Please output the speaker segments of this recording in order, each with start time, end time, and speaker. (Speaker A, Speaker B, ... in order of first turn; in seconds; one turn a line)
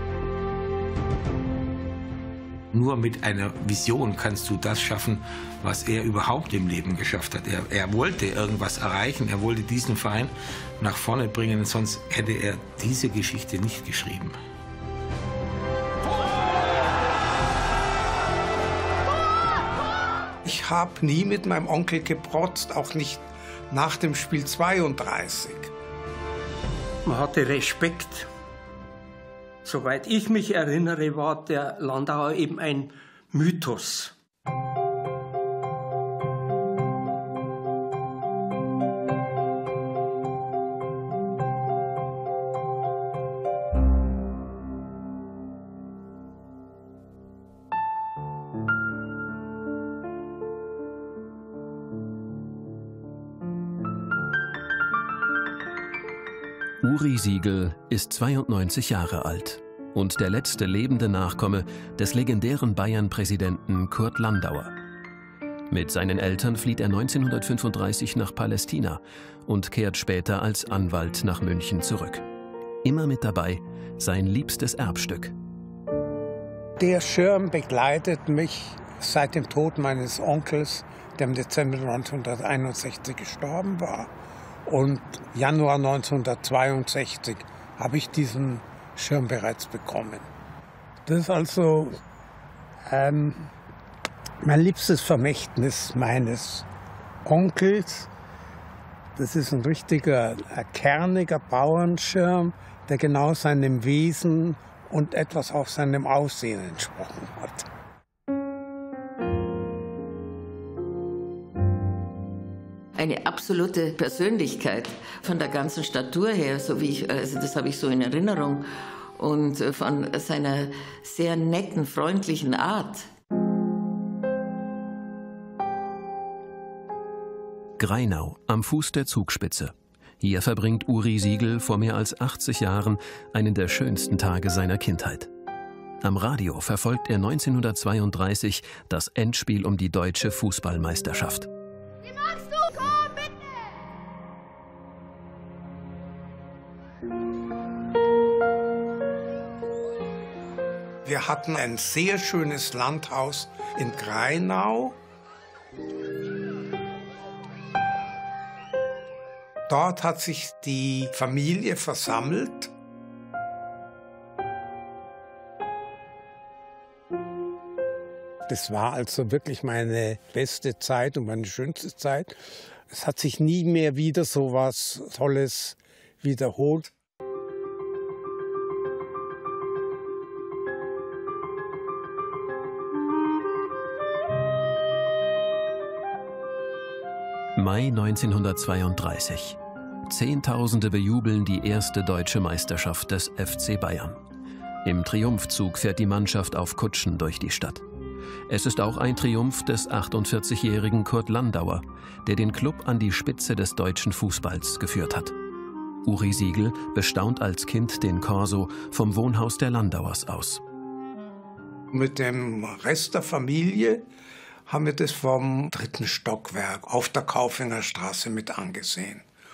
Speaker A: 2.7-14.4
Speaker B: 20.4-25.7
Speaker C: 27.0-28.3
Speaker C: 29.6-34.1
Speaker D: 56.8-64.7
Speaker D: 65.7-72.2
Speaker D: 72.8-75.3
Speaker B: 76.8-84.1
Speaker B: 84.6-90.3
Speaker B: 91.0-91.9
Speaker B: 92.9-93.5
Speaker B: 94.4-96.7
Speaker B: 97.2-98.1
Speaker B: 99.2-107.7
Speaker E: 113.0-123.1
Speaker D: 127.8-135.3
Speaker D: 136.0-141.5
Speaker B: 151.0-155.0
Speaker B: 159.7-162.7
Speaker B: 168.5-176.9
Speaker D: 187.6-194.2
Speaker D: 194.8-197.8
Speaker D: 198.5-205.3
Speaker D: 206.0-210.6
Speaker B: 211.9-214.1
Speaker B: 214.7-219.2